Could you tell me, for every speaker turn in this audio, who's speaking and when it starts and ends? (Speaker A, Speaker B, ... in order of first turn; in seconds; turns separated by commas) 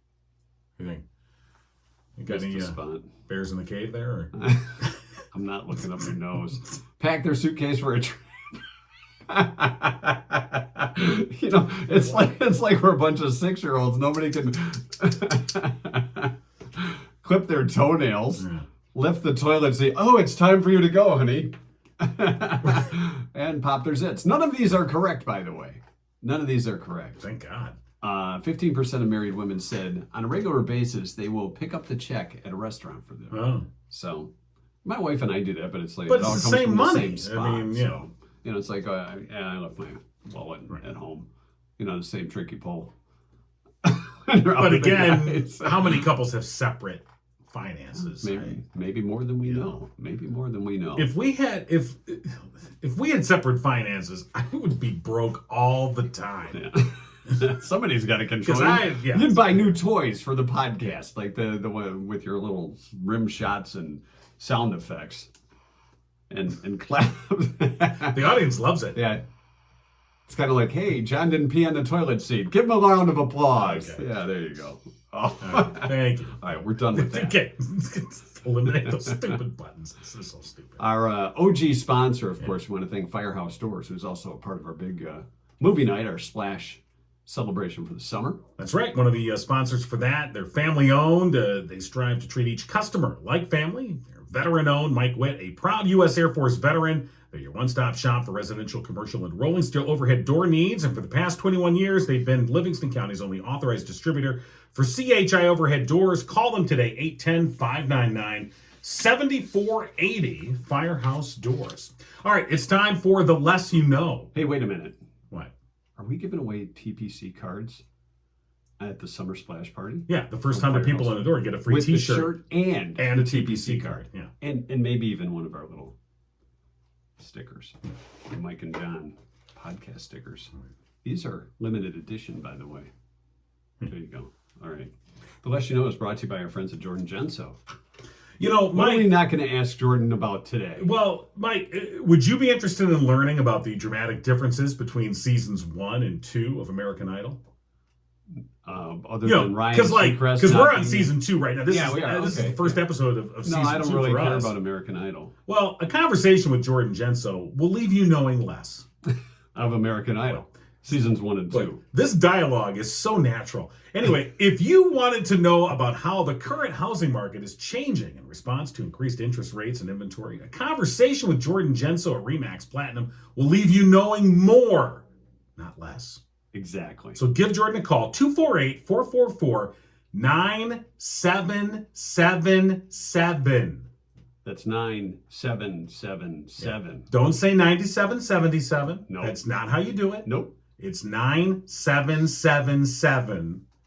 Speaker A: 0.8-1.0, Speaker A: 2.2-4.9, Speaker B: 2.3-3.1, Speaker B: 4.4-8.6, Speaker B: 9.3-27.2, Speaker A: 27.2-27.8, Speaker B: 28.0-34.3, Speaker A: 33.3-33.7, Speaker B: 34.8-42.9, Speaker A: 36.1-38.0, Speaker B: 43.8-46.0, Speaker A: 44.6-48.6, Speaker B: 48.2-51.1, Speaker A: 49.4-49.8, Speaker A: 51.0-56.6, Speaker B: 56.5-65.3, Speaker A: 58.4-59.8, Speaker B: 66.3-68.2, Speaker A: 68.0-69.1, Speaker B: 68.9-69.2, Speaker B: 70.3-77.4, Speaker A: 73.6-74.1, Speaker A: 75.4-76.4, Speaker A: 76.9-80.8, Speaker B: 80.8-88.4, Speaker A: 88.6-114.3, Speaker B: 114.3-115.0, Speaker B: 116.0-117.8, Speaker B: 118.8-126.0, Speaker A: 120.1-122.3, Speaker A: 123.0-124.3, Speaker B: 127.2-130.5, Speaker B: 131.0-132.9, Speaker B: 133.8-137.6, Speaker A: 138.4-139.1, Speaker B: 138.7-140.9, Speaker A: 140.8-147.4, Speaker B: 148.6-151.1, Speaker A: 149.2-154.6, Speaker B: 151.7-152.8, Speaker B: 153.4-155.3, Speaker A: 155.5-158.9, Speaker B: 159.5-161.8, Speaker A: 161.5-175.0, Speaker A: 175.6-176.2, Speaker B: 176.5-177.2, Speaker A: 177.2-183.8, Speaker B: 184.4-187.1, Speaker A: 186.6-190.3, Speaker B: 189.1-189.4, Speaker B: 190.2-190.5, Speaker A: 190.8-193.6